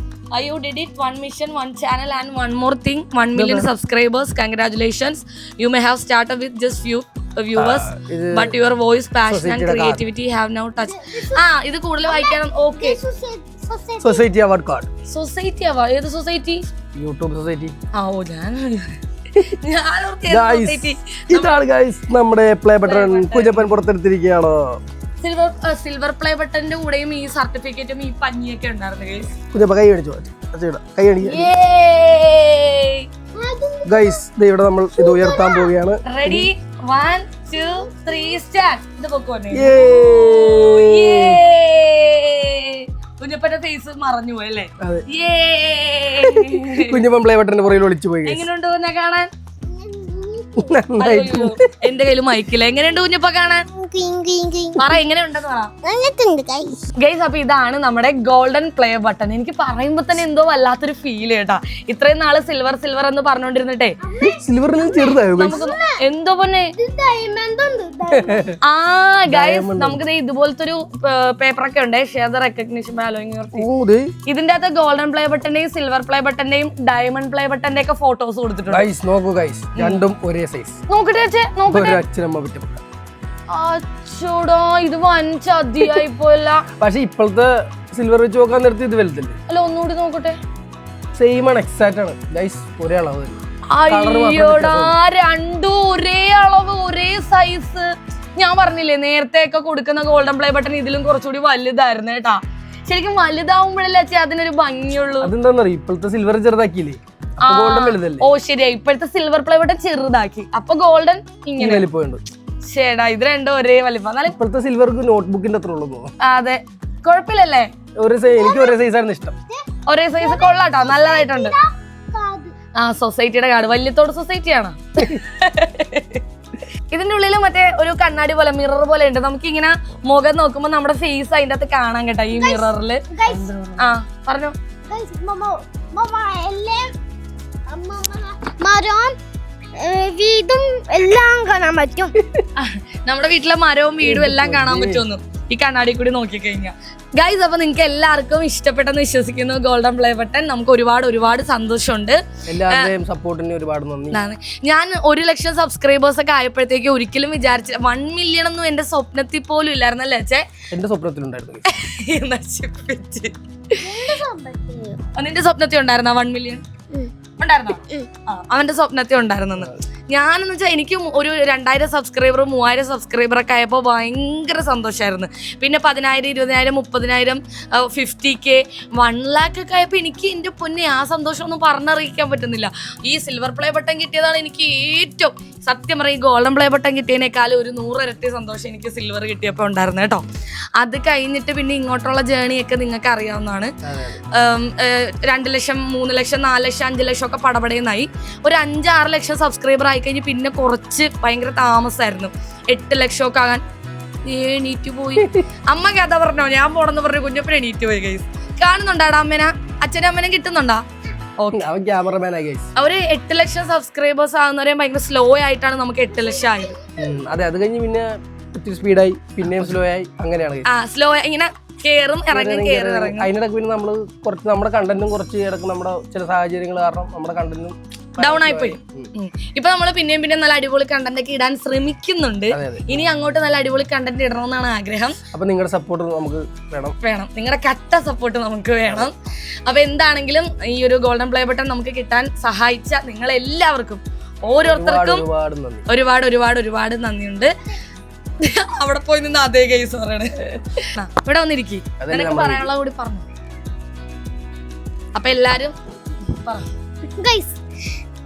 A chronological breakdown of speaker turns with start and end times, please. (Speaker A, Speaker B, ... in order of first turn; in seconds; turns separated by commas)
Speaker A: 0.3-13.0, Speaker B: 3.3-3.7, Speaker B: 7.5-8.6, Speaker B: 9.2-10.0, Speaker C: 10.8-11.4, Speaker C: 12.0-14.2, Speaker B: 14.0-14.9, Speaker A: 15.1-16.6, Speaker B: 16.9-17.7, Speaker A: 17.9-21.6, Speaker B: 20.3-24.8, Speaker A: 22.8-23.7, Speaker A: 25.2-29.3, Speaker B: 29.5-31.5, Speaker A: 31.2-33.1, Speaker C: 33.4-34.2, Speaker B: 33.9-36.5, Speaker C: 35.0-35.7, Speaker A: 36.1-47.0, Speaker C: 37.5-38.4, Speaker B: 39.5-41.4, Speaker B: 46.2-48.5, Speaker A: 48.2-49.3, Speaker C: 49.7-50.8, Speaker B: 50.6-51.7, Speaker A: 51.0-53.6, Speaker C: 53.7-55.0, Speaker A: 54.8-55.7, Speaker C: 55.8-56.8, Speaker A: 57.0-63.9, Speaker C: 64.0-66.0, Speaker B: 64.2-65.6, Speaker A: 65.3-66.7, Speaker C: 66.8-68.5, Speaker B: 68.1-68.6, Speaker A: 68.6-73.7, Speaker B: 69.3-70.0, Speaker B: 73.5-74.1, Speaker A: 74.3-78.9, Speaker B: 78.7-80.8, Speaker A: 79.8-80.0, Speaker A: 80.9-82.0, Speaker B: 81.7-82.8, Speaker A: 83.5-86.7, Speaker B: 86.8-89.3, Speaker A: 89.5-90.4, Speaker B: 91.2-94.9, Speaker A: 93.7-105.3, Speaker B: 105.2-108.2, Speaker A: 107.4-111.8, Speaker B: 111.6-112.2, Speaker A: 112.6-114.4, Speaker B: 114.3-116.1, Speaker A: 116.2-117.7, Speaker B: 118.0-119.3, Speaker C: 118.3-118.8, Speaker A: 119.9-121.5, Speaker C: 120.2-122.5, Speaker A: 122.7-126.2, Speaker A: 126.9-133.0, Speaker C: 132.3-133.6, Speaker B: 133.3-133.8, Speaker A: 133.8-134.5, Speaker C: 134.9-136.9, Speaker C: 137.7-139.1, Speaker C: 139.8-142.1, Speaker A: 142.6-152.9, Speaker B: 144.0-145.1, Speaker B: 152.5-154.2, Speaker A: 154.1-160.4, Speaker B: 160.7-161.7, Speaker A: 161.7-164.1, Speaker C: 163.8-165.0, Speaker A: 165.1-166.6, Speaker A: 167.4-190.2, Speaker B: 169.6-169.8, Speaker A: 190.8-193.7, Speaker B: 193.8-194.2, Speaker A: 194.3-203.6, Speaker A: 204.2-210.8, Speaker A: 211.4-211.7, Speaker B: 211.5-212.7, Speaker A: 212.8-216.8, Speaker C: 216.3-216.9, Speaker B: 217.0-220.7, Speaker A: 219.4-219.7, Speaker A: 220.7-223.3, Speaker B: 222.3-229.1, Speaker A: 228.2-235.2, Speaker B: 232.5-233.1, Speaker B: 235.3-237.0, Speaker A: 237.0-239.1, Speaker B: 238.8-239.1, Speaker A: 239.7-245.2, Speaker B: 244.6-245.8, Speaker A: 245.9-247.5, Speaker A: 248.4-253.2, Speaker B: 252.0-252.7, Speaker A: 255.1-255.7, Speaker A: 256.3-256.7, Speaker C: 257.2-257.6